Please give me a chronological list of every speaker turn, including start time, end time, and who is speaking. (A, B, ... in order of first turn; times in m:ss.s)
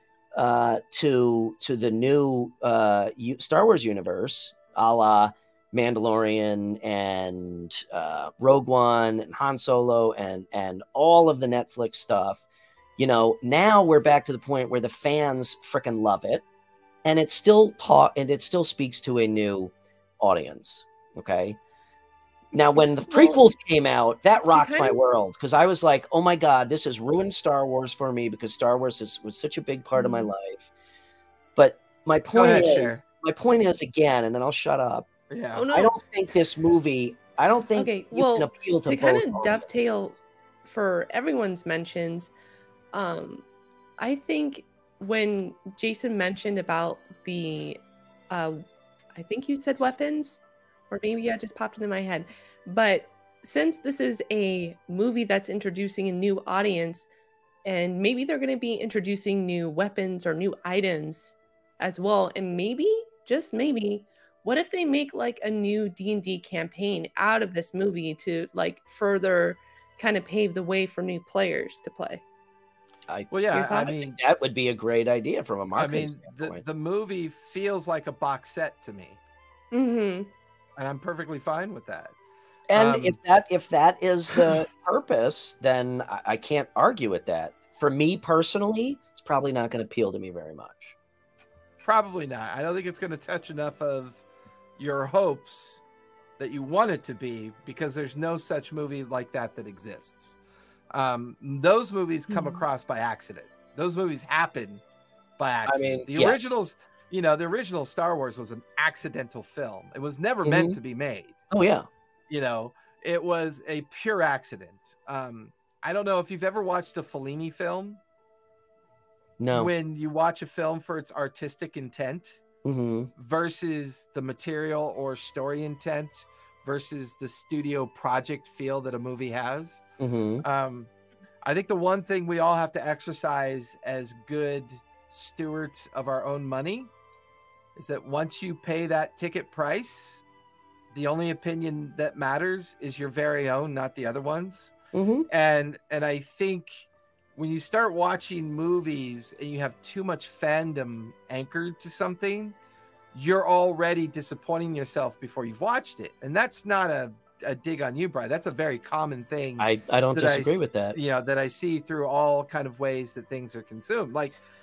0:00.3-0:12.4 A
0:13.0-0:16.4 A
0:17.0-0:21.6 A
0:22.5-0:30.7 A
0:23.1-0:23.4 B
0:24.4-0:25.0 B
0:30.0-0:30.3 B
0:31.6-0:35.1 A
0:32.3-0:33.0 C
0:35.3-0:35.7 C
0:35.5-0:36.0 B
0:35.7-0:39.6 A
0:37.7-0:42.3 B
0:42.9-0:43.4 B
0:44.0-0:48.6 B
0:49.1-0:57.1 B
0:57.6-1:12.2 B
1:13.1-1:16.6 A
1:13.3-1:14.2 C
1:13.6-1:13.9 B
1:15.7-1:19.2 C
1:19.7-1:20.3 B
1:20.8-1:22.1 C
1:22.7-1:30.9 A
1:22.7-1:23.2 C
1:31.8-1:34.2 C
1:34.8-1:35.8 C
1:36.4-1:40.4 C
1:40.9-1:44.8 C
1:42.3-1:42.6 B
1:45.4-1:51.4 C
1:45.6-1:46.5 A
1:50.4-1:50.8 A
1:51.5-1:51.9 A
1:52.3-1:58.0 C
1:59.4-1:59.7 A
1:59.5-2:02.4 C
2:02.6-2:03.1 A
2:03.2-2:09.8 C
2:10.0-2:10.4 A
2:10.4-2:10.9 C
2:11.4-2:16.9 C
2:17.7-2:20.2 C
2:20.9-2:24.7 C
2:24.9-2:25.3 A
2:25.3-2:32.5 C
2:33.1-2:44.4 C
2:39.6-2:41.0 A